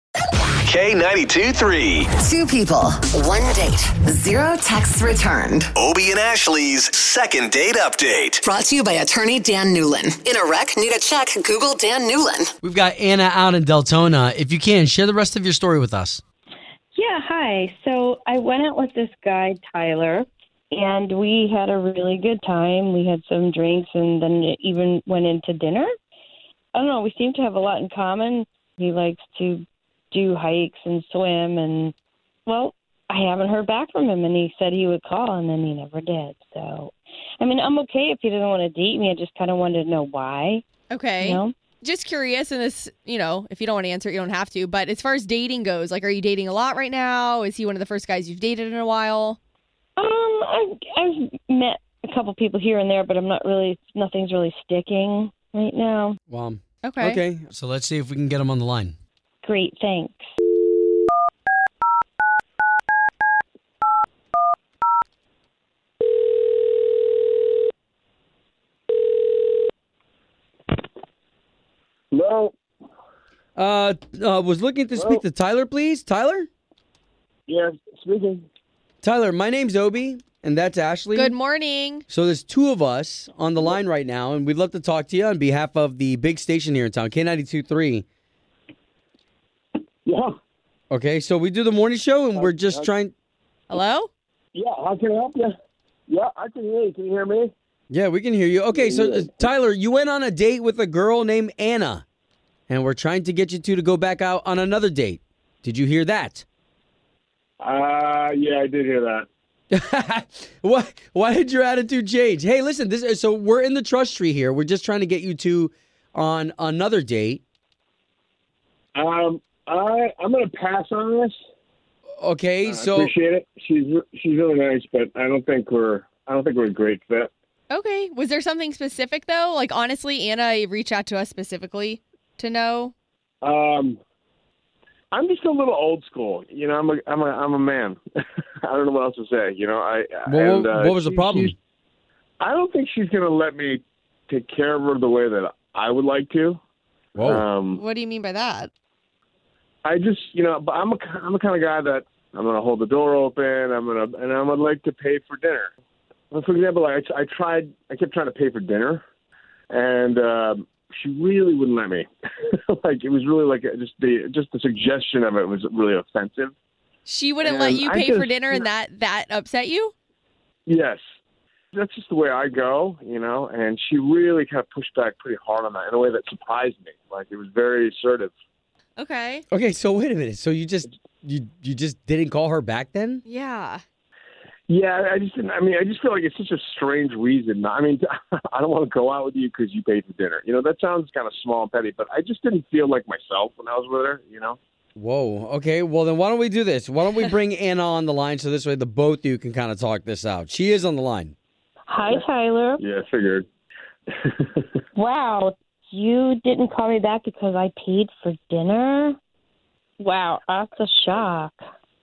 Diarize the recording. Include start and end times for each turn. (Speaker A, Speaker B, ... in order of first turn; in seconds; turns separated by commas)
Speaker A: 0.5-2.1, Speaker B: 2.1-5.8, Speaker A: 5.8-8.4, Speaker B: 8.4-12.5, Speaker C: 12.6-16.2, Speaker D: 16.9-25.9, Speaker D: 26.7-31.9, Speaker D: 32.5-40.6, Speaker E: 40.9-49.4, Speaker D: 41.2-41.5, Speaker D: 50.0-56.2, Speaker C: 56.3-59.0, Speaker E: 56.8-57.2, Speaker D: 59.4-60.3, Speaker F: 72.1-72.5, Speaker C: 73.6-76.5, Speaker F: 75.0-75.2, Speaker F: 77.5-78.5, Speaker C: 79.0-81.4, Speaker E: 81.1-82.1, Speaker C: 82.1-88.1, Speaker F: 90.0-90.3, Speaker C: 90.9-93.1, Speaker F: 92.3-92.9, Speaker E: 93.7-94.1, Speaker F: 94.5-95.5, Speaker F: 96.1-97.5, Speaker C: 97.9-102.0, Speaker F: 98.7-99.5, Speaker C: 102.7-106.4, Speaker F: 107.6-109.3, Speaker C: 109.7-117.4, Speaker F: 119.0-121.4, Speaker C: 122.2-123.1, Speaker F: 122.6-127.3, Speaker E: 127.7-132.9, Speaker F: 133.4-134.0, Speaker F: 135.1-138.0, Speaker F: 138.6-141.5, Speaker C: 140.3-141.6, Speaker F: 142.4-146.6, Speaker C: 147.2-147.4, Speaker F: 147.2-147.8, Speaker E: 147.7-148.7, Speaker F: 149.8-155.7, Speaker F: 156.3-159.0, Speaker F: 159.7-166.5, Speaker E: 167.1-169.9, Speaker F: 167.4-168.7, Speaker F: 170.7-171.0, Speaker F: 171.7-178.3, Speaker E: 179.0-179.4, Speaker C: 179.5-183.2, Speaker E: 183.2-183.8, Speaker F: 184.7-194.6, Speaker C: 194.9-201.3, Speaker D: 201.9-202.8, Speaker F: 202.8-203.4, Speaker F: 204.1-204.8, Speaker D: 204.9-209.2, Speaker D: 210.0-211.6